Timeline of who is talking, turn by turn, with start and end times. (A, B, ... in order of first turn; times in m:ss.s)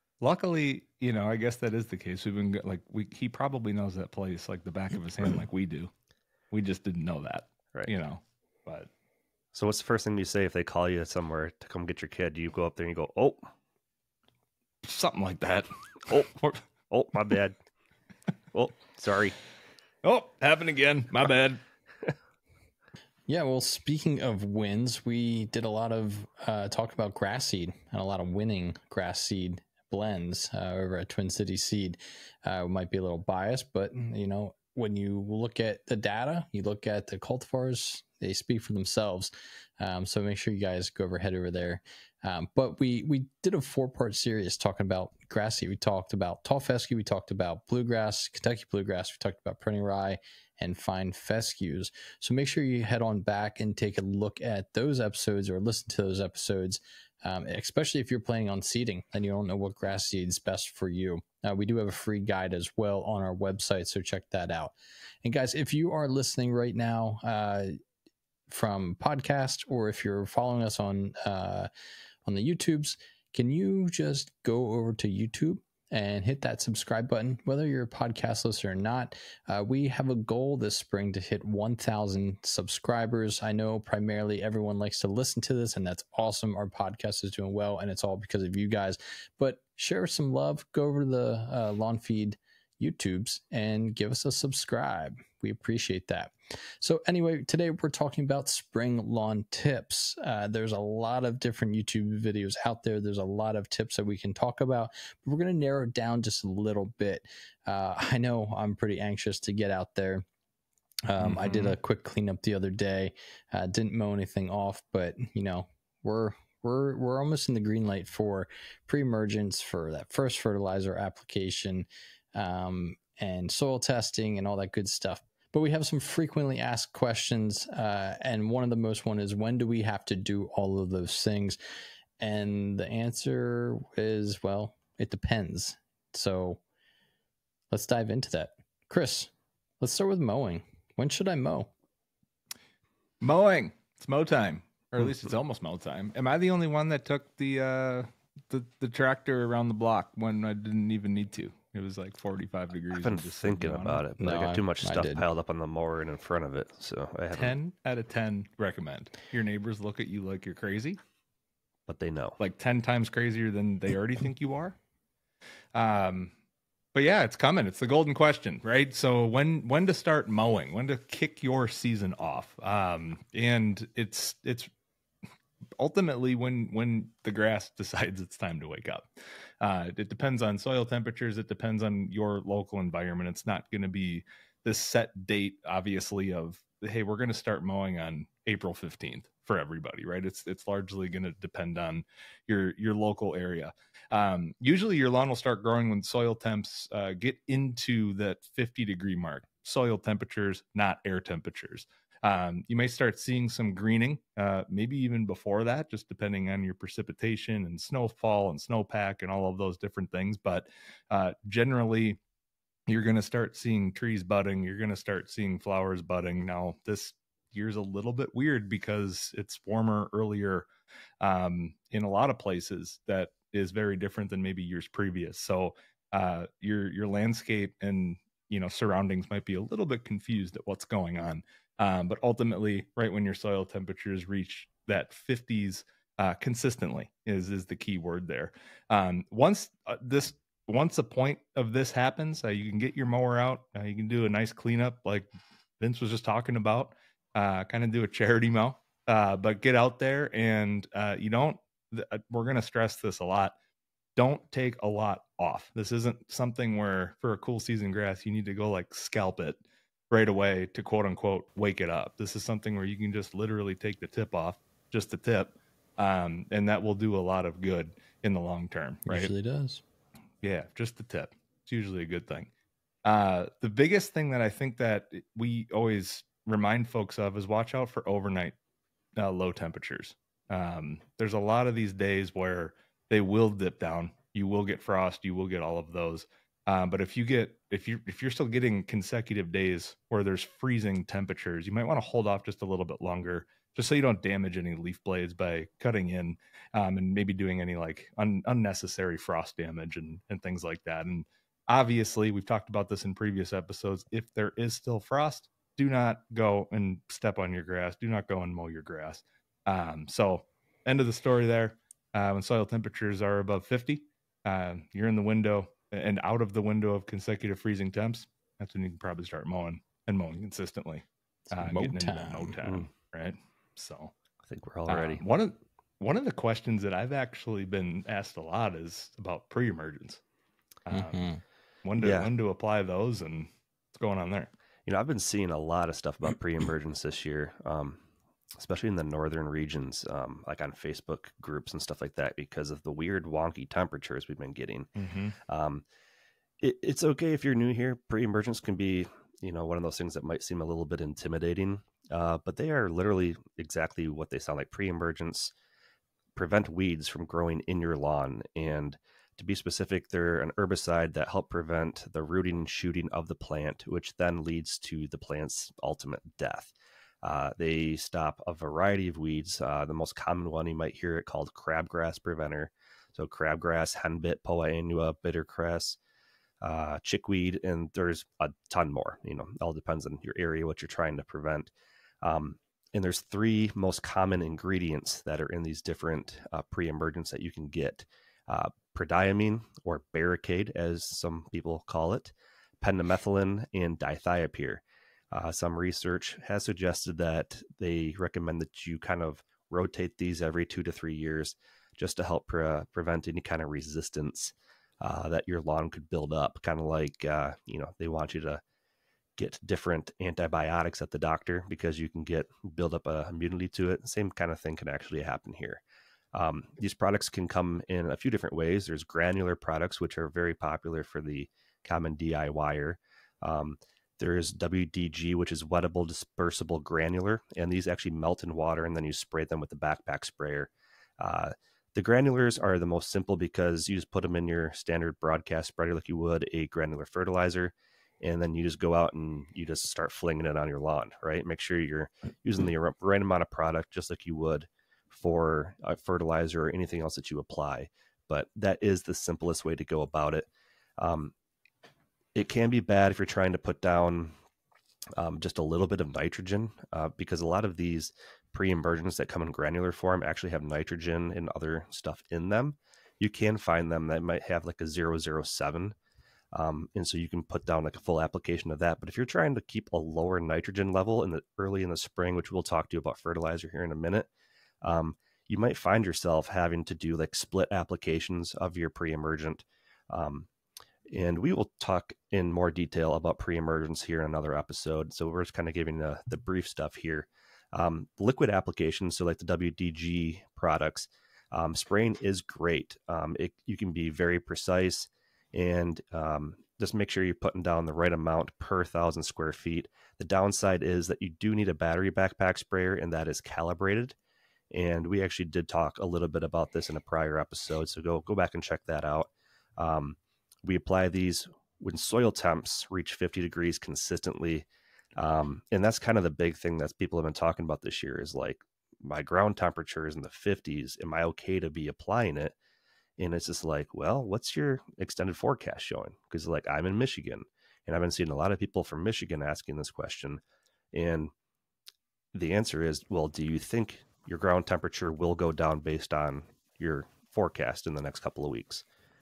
0:00.2-0:05.9 A
0:06.5-0:08.9 A
0:09.5-0:13.5 B
0:14.8-0:15.7 A
0:16.1-0:16.4 B
0:16.3-0:16.6 A
0:16.9-0:17.6 B
0:18.5-0:19.4 B
0:20.0-0:21.6 A
0:23.3-1:07.7 C
1:08.5-1:11.7 C
1:12.2-1:50.2 C
1:51.0-2:11.6 C
1:51.2-1:51.8 A
2:12.2-2:16.6 C
2:17.7-2:21.7 C
2:23.2-2:34.1 A
2:32.9-2:37.5 B
2:34.2-2:35.2 C
2:37.3-2:41.0 A
2:41.9-2:42.4 B
2:42.4-2:44.8 A
2:45.7-2:46.3 A
2:46.9-2:54.7 A
2:55.8-2:59.1 A
2:59.6-3:32.2 A
3:32.9-3:40.7 A
3:41.2-4:05.3 A
4:05.8-4:13.6 A
4:14.2-4:29.3 A
4:29.0-4:29.8 C
4:30.4-4:32.5 A
4:33.0-4:38.5 A
4:39.2-5:24.1 A
5:21.5-5:22.6 C
5:24.4-5:25.2 B
5:24.9-5:30.2 A
5:30.8-5:31.3 A
5:30.9-5:31.4 C
5:31.8-5:34.5 A
5:32.0-5:32.3 B
5:34.8-5:38.0 B
5:38.5-5:44.9 B
5:45.0-5:45.4 A
5:45.4-5:45.8 B
5:46.6-5:55.5 B
5:56.3-6:06.7 B
6:07.2-6:16.0 B
6:16.6-6:21.7 B
6:22.2-6:48.6 B
6:49.4-6:55.8 B
6:56.3-7:30.4 B
7:31.0-7:31.3 B
7:32.3-7:34.3 B
7:35.2-7:46.0 B
7:46.5-7:54.3 B
7:54.8-8:00.5 B
8:01.1-8:24.1 B
8:24.7-8:34.6 B
8:35.2-8:42.5 B
8:43.2-8:50.4 B
8:50.9-8:51.3 B
8:52.3-8:58.8 B